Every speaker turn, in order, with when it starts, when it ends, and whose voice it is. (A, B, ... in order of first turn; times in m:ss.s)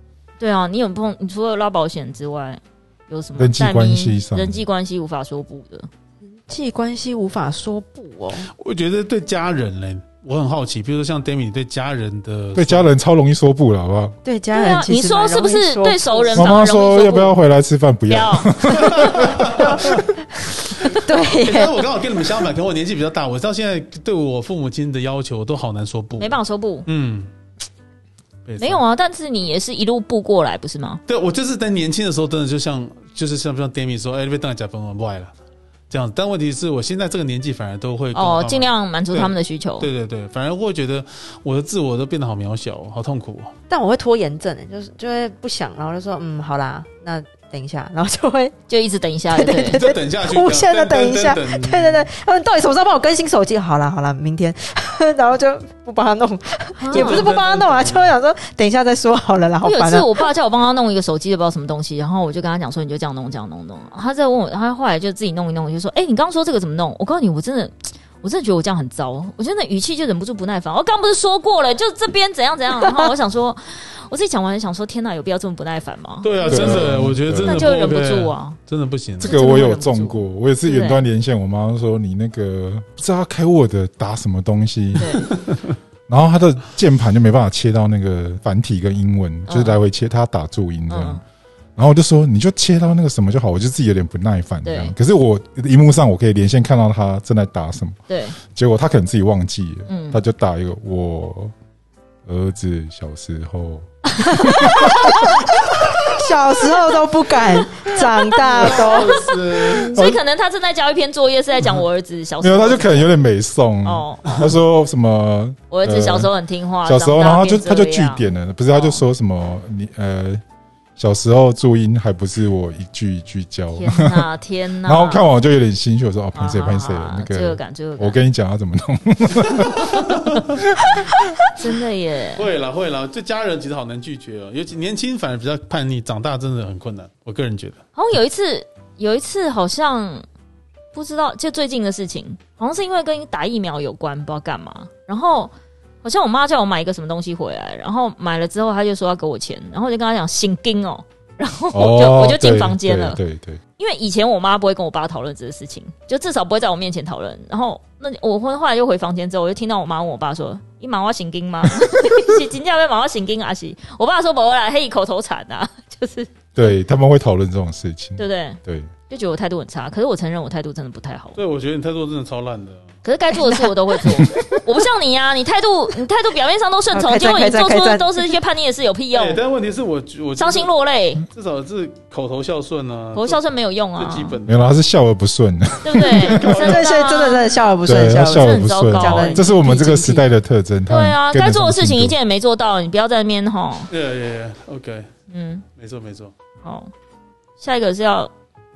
0:00.4-0:05.9 A
0:03.4-0:04.6 B
0:06.5-0:08.5 C
0:08.6-0:12.9 D
0:12.5-0:14.1 B
0:14.2-0:16.6 C
0:14.5-0:17.4 A
0:16.3-0:20.0 B
0:18.1-0:19.3 A
0:18.7-0:20.0 D
0:20.8-0:21.8 C
0:21.1-0:27.3 D
0:26.2-0:26.9 A
0:28.4-0:28.8 D
0:28.6-0:31.0 A
0:31.1-0:35.3 D
0:35.9-0:43.5 D
0:38.1-0:39.9 A
0:43.7-0:48.5 C
0:48.7-0:49.8 A
0:49.3-1:00.2 C
0:49.6-0:52.1 D
0:56.8-0:57.2 A
0:56.9-0:58.1 D
0:59.6-1:18.6 A
1:16.2-1:19.3 D
1:16.4-1:17.7 B
1:19.2-1:25.4 B
1:19.2-1:21.0 A
1:25.0-1:25.3 A
1:26.1-1:31.2 B
1:29.5-1:29.8 A
1:30.9-1:31.2 A
1:31.8-1:41.5 B
1:34.6-1:34.9 A
1:38.1-1:38.4 A
1:39.9-1:40.2 A
1:42.2-1:45.4 B
1:44.2-1:49.2 C
1:47.8-1:53.1 A
1:48.4-1:50.0 D
1:49.9-1:50.2 B
1:52.4-1:56.3 B
1:53.8-1:54.5 A
1:55.7-1:59.0 A
1:56.8-2:00.4 B
2:01.0-2:04.3 B
2:03.7-2:05.2 A
2:04.8-2:11.2 B
2:06.3-2:08.2 A
2:09.9-2:10.4 D
2:11.5-2:12.5 A
2:12.4-2:17.8 D
2:18.0-2:20.2 A
2:20.9-2:25.5 A
2:26.0-2:33.2 A
2:31.7-2:33.6 B
2:33.8-2:46.7 A
2:46.5-2:48.9 B
2:48.2-2:51.4 A
2:51.4-2:52.9 D
2:53.0-2:59.4 A
2:53.3-2:54.6 C
2:56.9-2:58.3 C
2:59.1-3:00.7 D
3:00.4-3:01.2 A
3:01.3-3:03.4 D
3:03.1-3:04.4 A
3:04.0-3:04.7 D
3:04.4-3:06.5 B
3:05.8-3:07.6 A
3:06.3-3:06.9 D
3:06.4-3:10.2 C
3:07.8-3:12.2 B
3:08.1-3:10.2 A
3:10.9-3:13.9 A
3:13.9-3:15.1 D
3:15.3-3:15.6 A
3:15.8-3:16.3 D
3:16.6-3:16.9 A
3:17.6-3:18.3 A